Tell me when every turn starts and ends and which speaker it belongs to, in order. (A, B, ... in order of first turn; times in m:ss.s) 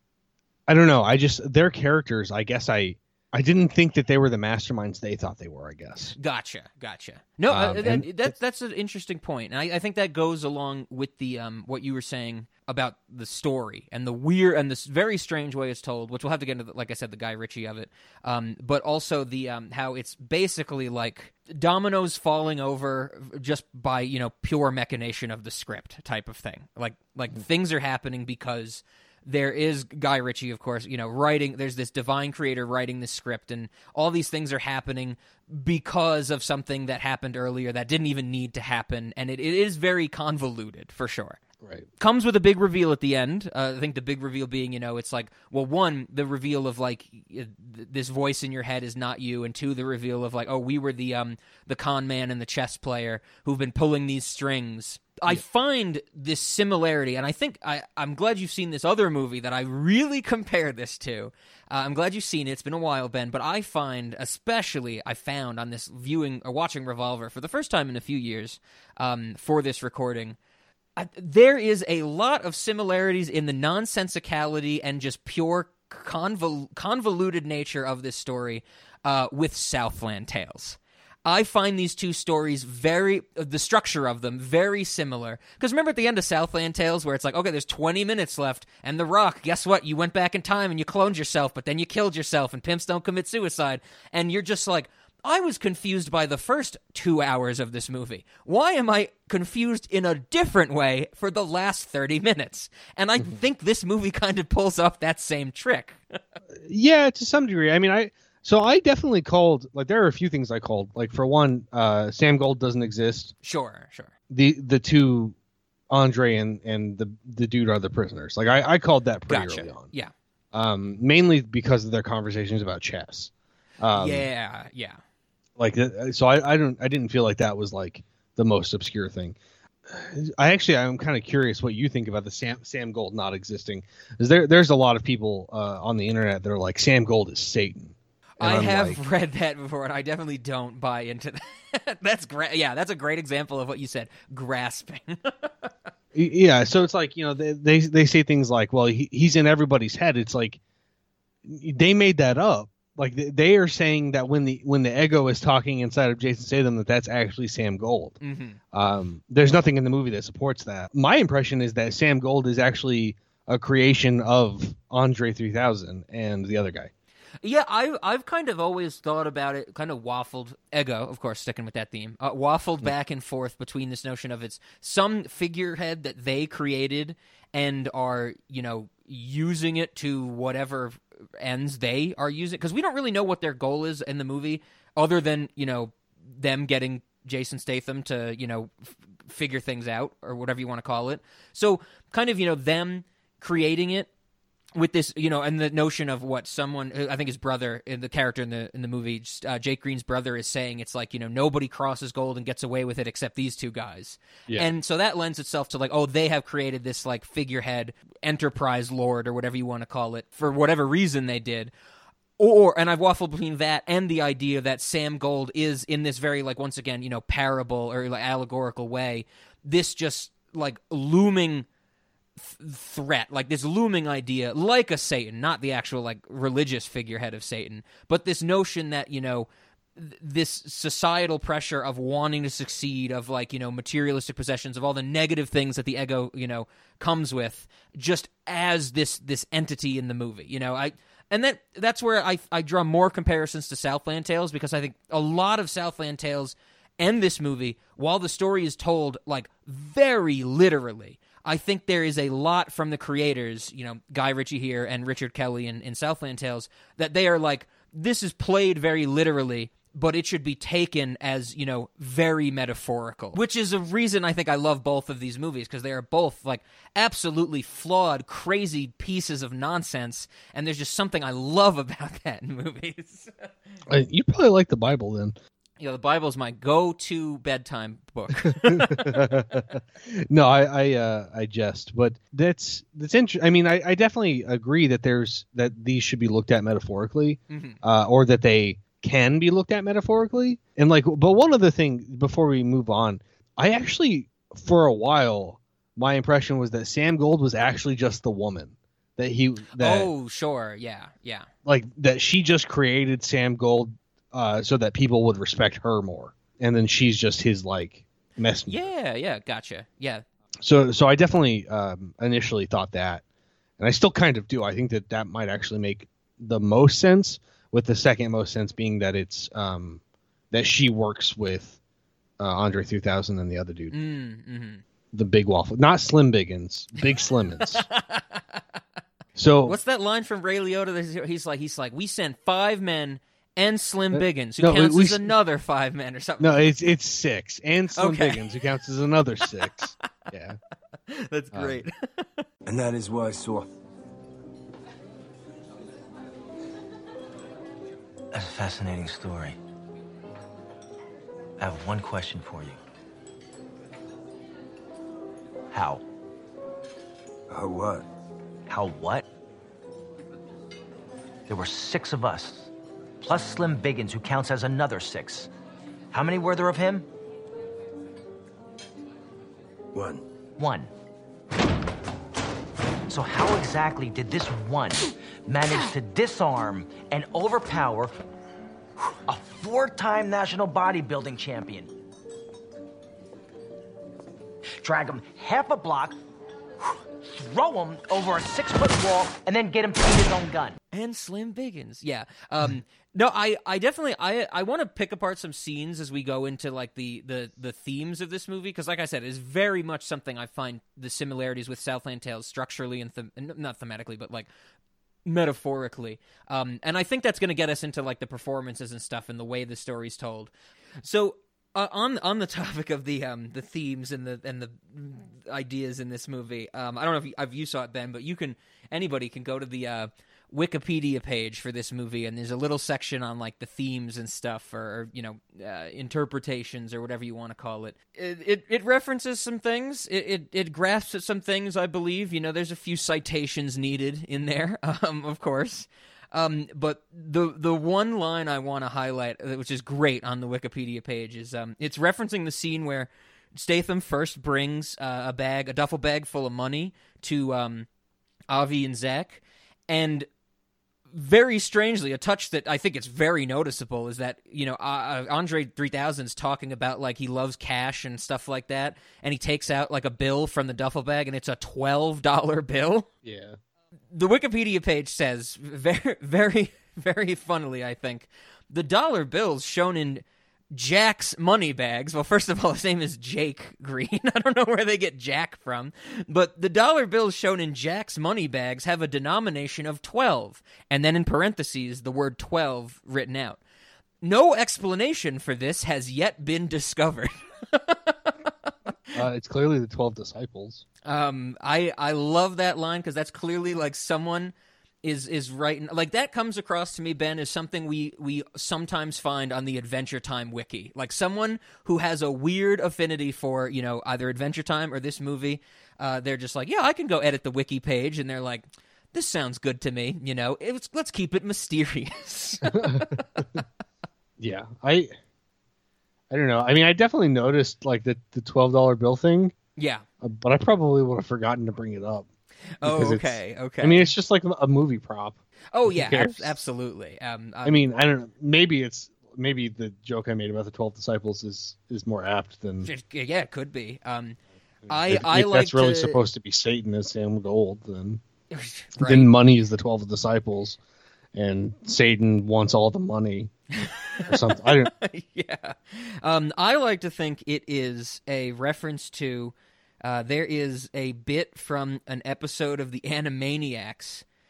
0:00.7-0:06.2 A
0:06.2-0:41.4 B
0:07.5-0:08.3 A
0:41.6-0:41.9 A
0:42.0-1:10.4 B
1:11.0-1:46.2 B
1:46.6-1:53.3 A
1:53.4-1:54.1 B
1:54.3-1:55.3 A
1:55.9-1:59.9 A
1:59.3-2:00.1 B
2:00.5-2:04.3 A
2:03.9-2:05.0 B
2:05.6-2:09.4 A
2:09.9-2:19.0 A
2:18.4-2:25.7 B
2:26.1-2:30.6 A
2:31.4-2:38.2 A
2:38.2-2:38.6 B
2:38.7-2:46.9 A
2:47.4-3:14.1 B
3:14.8-3:31.7 B
3:32.4-3:41.6 B
3:42.4-4:33.5 B
4:33.9-4:35.4 A
4:35.8-4:39.3 B
4:38.4-5:00.1 A
4:47.5-4:47.8 B
4:59.7-5:01.5 B
5:01.6-5:08.9 A
5:08.7-5:10.2 B
5:10.6-5:13.2 A
5:13.8-5:21.8 A
5:22.4-5:23.9 A
5:23.9-5:24.8 B
5:25.1-5:27.8 A
5:27.9-5:28.6 B
5:29.3-5:29.8 A
5:29.6-5:36.7 B
5:34.1-5:35.3 A
5:36.4-5:40.6 A
5:38.0-5:38.5 B
5:41.1-5:42.4 B
5:41.5-5:41.8 A
5:42.6-5:43.7 C
5:48.3-5:49.6 D
5:51.6-5:52.8 D
5:55.7-5:56.0 D
5:57.5-5:58.0 C
5:58.7-5:59.3 D
6:01.5-6:05.5 D
6:06.1-6:07.1 D
6:09.9-6:10.2 C
6:10.6-6:10.9 D
6:13.1-6:18.1 D
6:19.0-6:21.9 D
6:24.8-6:26.2 D
6:27.3-6:30.8 D
6:30.9-6:44.5 B
6:45.2-6:50.5 B
6:51.0-7:27.9 B
7:28.5-7:30.3 B
7:31.1-7:43.1 B
7:43.2-7:43.6 A
7:44.1-8:03.6 B
8:04.2-8:09.2 B
8:09.1-8:10.8 A
8:11.0-8:33.4 B
8:32.7-8:33.4 A
8:34.4-8:35.1 A
8:36.3-8:39.5 A
8:39.8-8:40.0 B
8:40.2-8:42.2 A
8:42.8-8:44.1 B
8:42.8-8:46.5 A
8:45.7-8:47.8 B
8:47.6-8:52.9 A
8:52.8-8:54.4 B
8:54.9-8:58.2 A
8:54.9-8:56.2 B
8:58.5-8:59.3 B
8:59.0-9:00.8 A
9:01.3-9:03.5 A
9:03.8-9:14.2 B
9:04.2-9:04.9 A